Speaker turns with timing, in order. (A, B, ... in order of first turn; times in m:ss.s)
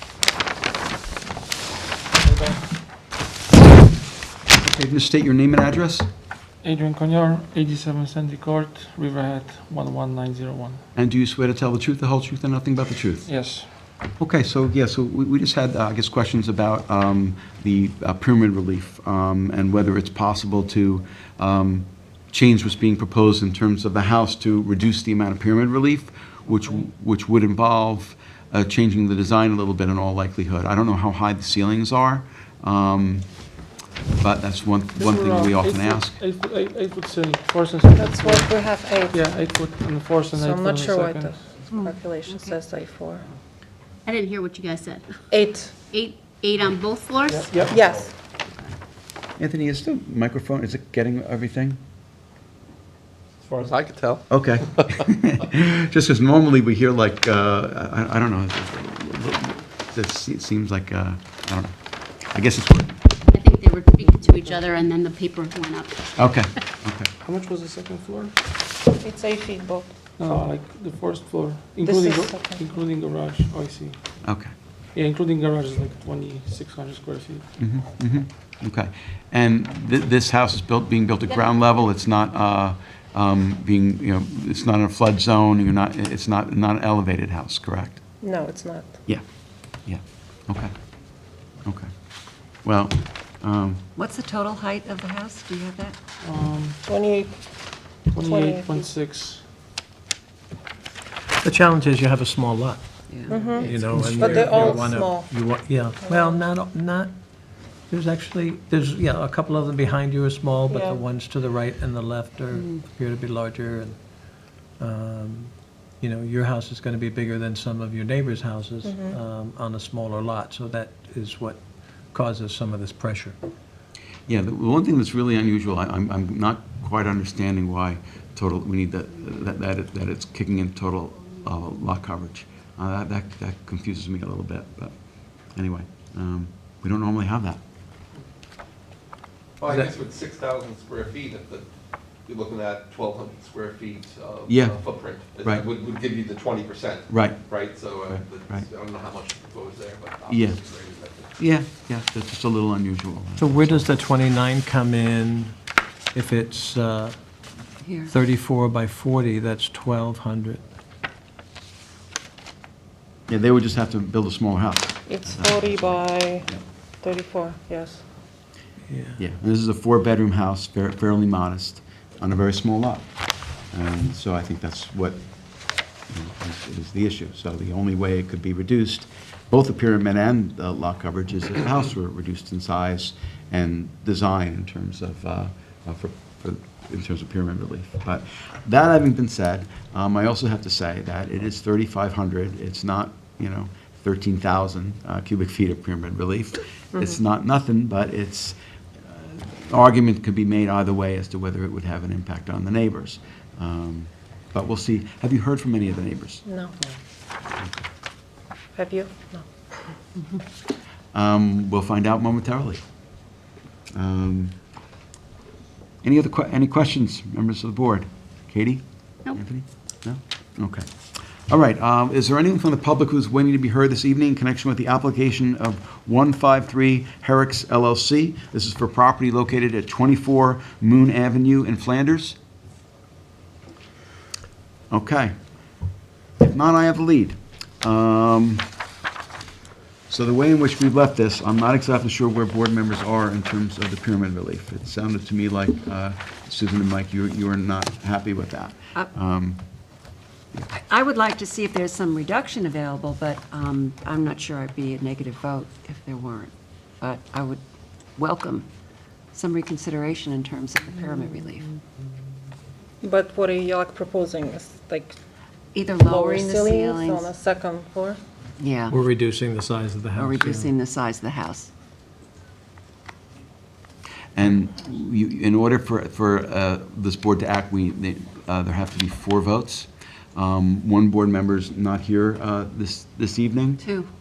0:02.3-0:02.6 A
0:04.6-0:06.1 B
0:06.6-0:10.8 A
0:11.0-0:13.3 B
0:13.3-0:13.7 A
0:14.2-0:33.4 B
0:34.2-0:36.2 B
0:35.0-0:38.5 A
0:38.0-0:39.3 C
0:39.1-0:41.4 A
0:40.3-0:43.3 C
0:41.7-0:42.6 D
0:44.1-0:45.1 E
0:45.3-0:45.7 C
0:45.9-0:47.6 E
0:47.3-0:47.8 A
0:47.5-0:47.8 F
0:47.7-0:48.1 C
0:49.4-0:51.8 B
0:53.4-0:54.3 F
0:54.3-1:01.7 B
1:02.3-1:03.0 B
1:03.3-1:06.4 E
1:06.2-1:07.1 B
1:07.2-1:08.3 A
1:09.0-1:09.9 C
1:10.2-1:14.0 A
1:11.8-1:12.6 C
1:14.2-1:14.5 B
1:15.0-1:17.5 A
1:17.6-1:28.0 B
1:28.2-1:29.0 C
1:29.8-1:30.7 B
1:32.6-1:33.8 B
1:34.0-1:36.0 D
1:36.2-1:36.8 A
1:36.9-1:37.4 C
1:38.1-1:39.4 A
1:38.1-1:38.9 C
1:41.4-1:42.8 G
1:43.1-1:43.5 D
1:43.3-1:45.3 C
1:43.5-1:44.8 A
1:43.6-1:47.1 G
1:46.0-1:46.4 C
1:47.9-1:54.0 G
1:50.7-1:51.0 C
1:54.8-2:01.6 G
1:58.8-1:59.2 C
2:02.1-2:03.4 G
2:04.3-2:15.0 B
2:15.6-2:17.6 B
2:19.6-2:21.7 F
2:22.3-2:31.4 F
2:24.5-2:24.8 B
2:25.4-2:25.7 B
2:27.1-2:27.4 B
2:28.1-2:28.7 B
2:30.3-2:30.6 B
2:31.4-2:33.9 B
2:33.4-2:35.6 G
2:36.1-2:37.2 G
2:37.8-2:38.1 D
2:38.1-2:40.6 G
2:43.3-2:46.6 B
2:45.1-2:48.0 C
2:48.9-2:49.2 G
2:49.2-2:53.1 B
2:53.7-2:55.2 B
2:56.1-3:26.4 B
3:26.5-3:26.8 C
3:27.6-3:27.8 B
3:28.8-3:29.9 C
3:31.1-3:32.8 B
3:33.9-3:34.6 B
3:36.0-3:40.9 B
3:41.5-3:52.4 B
3:54.9-3:55.4 B
3:56.4-3:58.7 B
4:00.1-4:09.6 B
4:10.7-4:17.6 D
4:18.2-4:18.7 D
4:19.3-4:21.7 D
4:23.0-4:25.2 C
4:25.7-4:27.3 D
4:26.0-4:28.2 C
4:28.6-4:29.0 D
4:28.9-4:30.7 G
4:30.2-4:31.7 D
4:34.3-4:43.8 B
4:43.8-4:44.1 D